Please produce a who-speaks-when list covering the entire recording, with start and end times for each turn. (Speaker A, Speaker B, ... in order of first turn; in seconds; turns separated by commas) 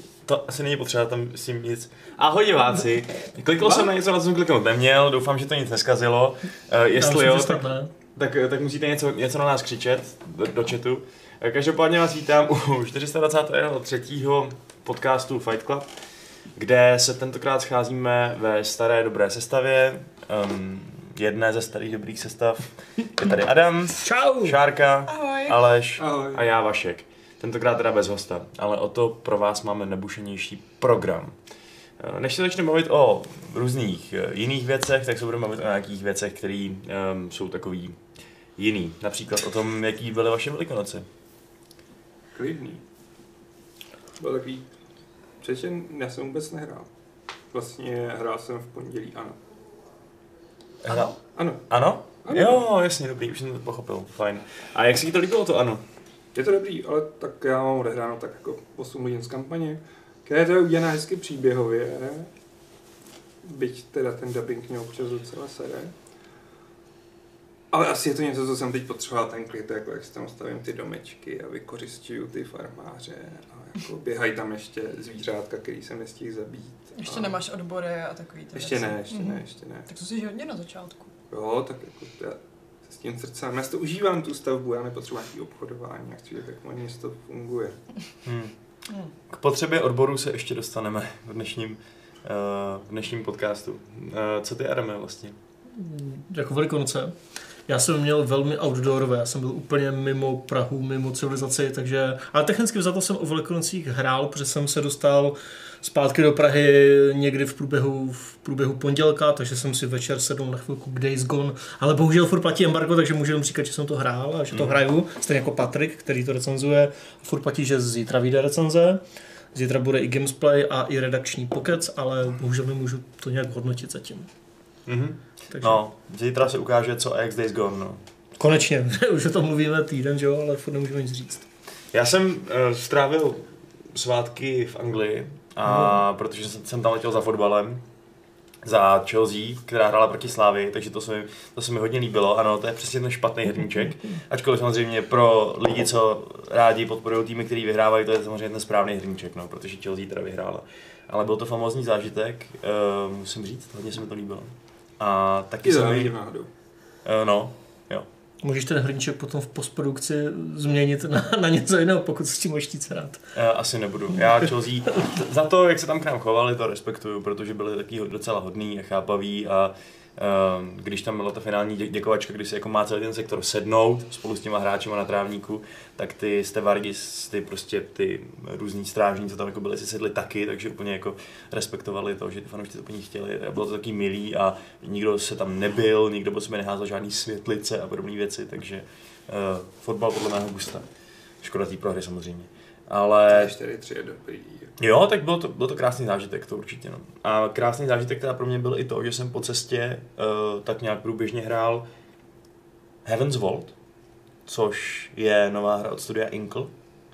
Speaker A: 0.2-15.9, Speaker B: 3.6-3.9, Speaker C: 7.0-7.9, Speaker A: 16.6-31.4, Speaker C: 24.0-24.6, Speaker D: 25.1-25.6, Speaker B: 26.0-26.4, Speaker A: 32.0-38.0, Speaker A: 38.6-41.0, Speaker B: 42.3-42.8, Speaker B: 44.2-44.6, Speaker B: 45.4-46.9, Speaker B: 47.5-49.4, Speaker A: 50.8-51.1, Speaker B: 51.3-51.6, Speaker A: 51.7-55.8, Speaker B: 52.2-52.6, Speaker B: 56.3-62.3, Speaker B: 63.4-65.9, Speaker B: 67.7-77.4, Speaker D: 77.0-81.1, Speaker B: 78.5-79.9, Speaker B: 81.3-87.8, Speaker A: 88.2-88.5, Speaker A: 89.3-95.4, Speaker C: 95.7-97.1, Speaker C: 97.7-119.0, Speaker A: 114.5-114.8, Speaker C: 119.5-124.3, Speaker A: 124.9-128.0, Speaker C: 125.5-125.8, Speaker C: 128.4-131.4, Speaker A: 131.9-137.8, Speaker C: 135.7-136.0, Speaker A: 138.6-156.1, Speaker B: 155.6-156.5, Speaker A: 157.0-158.1, Speaker C: 158.4-163.2, Speaker A: 163.3-190.8, Speaker A: 191.4-193.5, Speaker B: 193.3-194.7, Speaker A: 194.8-201.8, Speaker A: 203.0-203.7, Speaker A: 204.4-206.7